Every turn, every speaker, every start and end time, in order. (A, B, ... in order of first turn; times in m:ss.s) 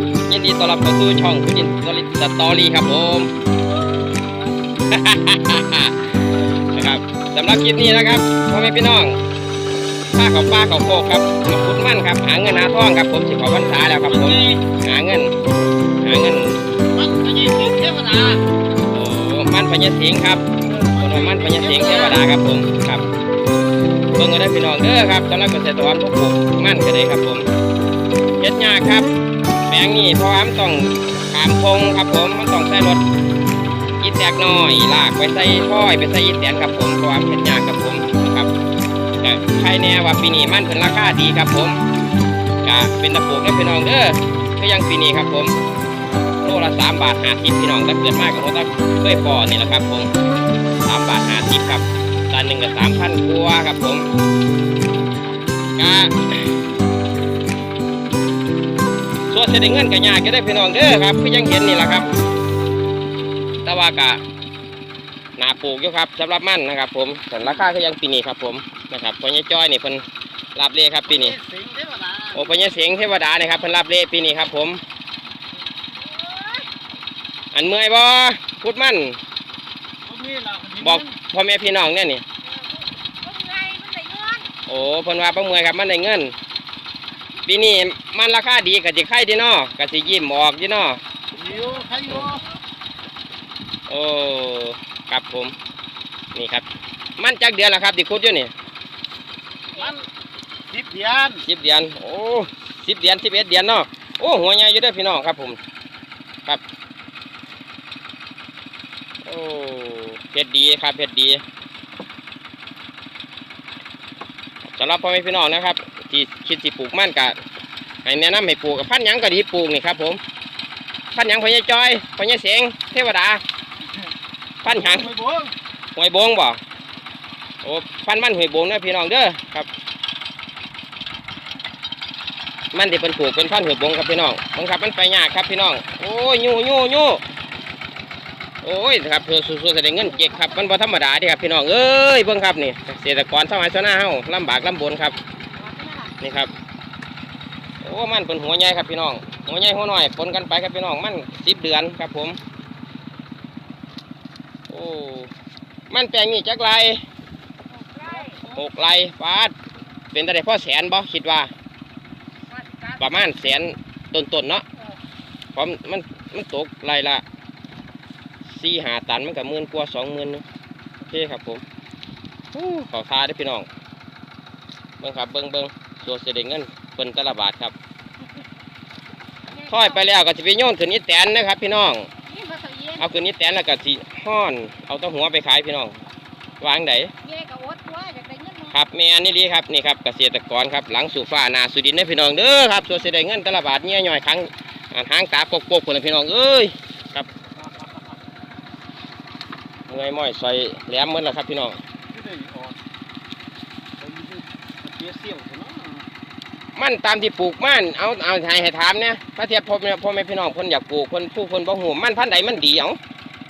0:00.2-0:03.3 A
0:04.8-0:09.2 A
0:10.1-0:15.3 A
0:13.7-0:14.6 B
0:16.0-0:16.7 A
0:16.9-0:18.4 B
0:18.9-0:23.0 A
0:20.6-0:22.2 B
0:24.1-0:27.5 A
0:28.4-0:29.1 A
0:29.7-0:33.0 A
0:34.0-0:38.5 A
0:39.2-0:41.8 A
0:42.6-0:45.5 A
0:46.4-0:50.1 A
0:50.8-0:54.1 A
0:55.8-0:56.6 A
0:59.3-1:02.1 A
1:03.6-1:04.2 A
1:05.4-1:11.4 A
1:11.0-1:13.0 B
1:12.3-1:14.8 A
1:15.9-1:16.7 C
1:17.5-1:19.2 A
1:20.0-1:21.1 B
1:20.8-1:22.2 A
1:22.4-1:24.5 C
1:24.6-1:26.3 A
1:27.4-1:31.0 A
1:31.3-1:32.4 B
1:33.9-1:35.5 A
1:36.3-1:36.7 A
1:37.2-1:38.5 A
1:39.7-1:40.0 B
1:40.7-1:41.4 B
1:41.4-1:45.6 A
1:49.2-1:51.4 A
1:54.7-1:57.4 A
1:58.0-2:00.2 A
2:01.1-2:03.4 A
2:04.6-2:05.1 A
2:04.6-2:05.5 B
2:05.9-2:06.6 A
2:07.6-2:09.7 A
2:12.7-2:17.2 A
2:18.6-2:25.2 A
2:20.2-2:20.4 C
2:25.5-2:26.2 C
2:26.2-2:26.5 A
2:27.8-2:32.4 A
2:34.7-2:35.3 A
2:35.9-2:37.0 A
2:37.7-2:38.6 C
2:38.4-2:39.5 A
2:40.1-2:41.5 A
2:42.5-2:43.0 C
2:43.0-2:44.6 A
2:45.5-2:47.2 A
2:48.4-2:50.4 A
2:51.0-2:51.6 A
2:52.5-2:53.7 A
2:55.0-2:57.7 A
2:59.5-3:00.0 C
2:59.7-3:02.1 A
3:02.2-3:03.1 C
3:03.0-3:06.0 A
3:06.6-3:07.1 A
3:07.2-3:08.8 C
3:08.7-3:17.3 A
3:19.9-3:21.8 A
3:22.1-3:22.8 B
3:24.0-3:26.1 B
3:26.7-3:33.0 A